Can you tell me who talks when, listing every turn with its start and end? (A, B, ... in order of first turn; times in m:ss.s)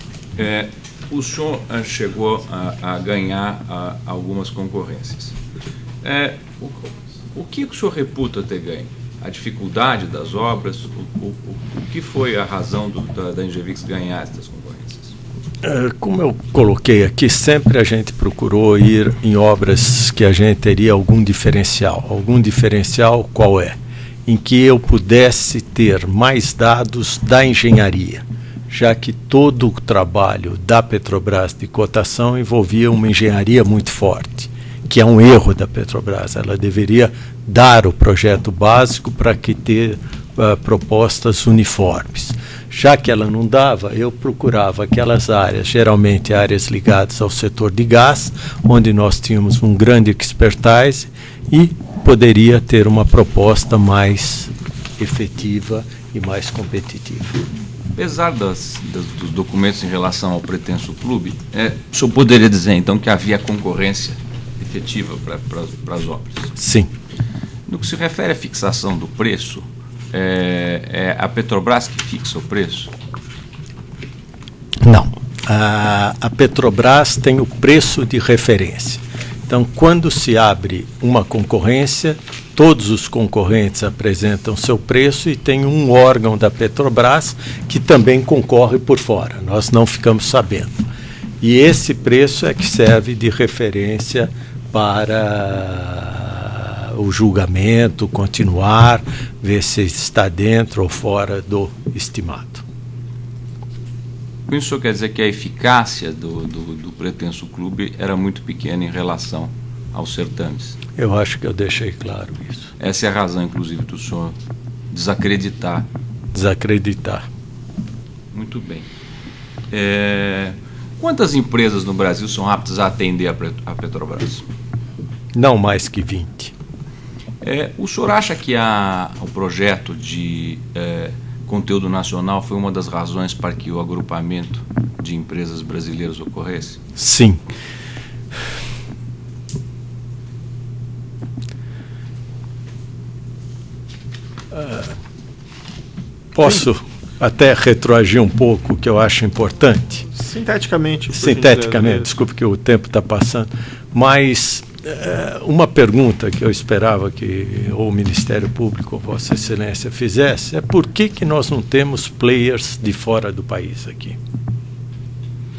0:00.4-0:05.4 A
0:06.0-0:15.1 A
0:15.6-0:57.4 B
0:57.9-1:06.5 A
1:06.6-1:06.9 B
1:07.7-1:12.9 A
1:14.8-1:30.8 B
1:31.4-1:42.6 B
1:44.5-1:50.8 A
1:51.0-1:52.7 B
1:52.8-1:54.3 A
1:54.9-1:55.9 A
1:56.3-1:57.2 B
1:58.3-1:58.9 A
1:59.7-2:04.4 A
2:05.3-2:06.5 B
2:07.4-2:16.8 A
2:17.0-2:17.4 B
2:24.5-2:24.9 B
2:26.3-2:30.1 B
2:30.1-2:32.1 C
2:31.1-2:44.2 B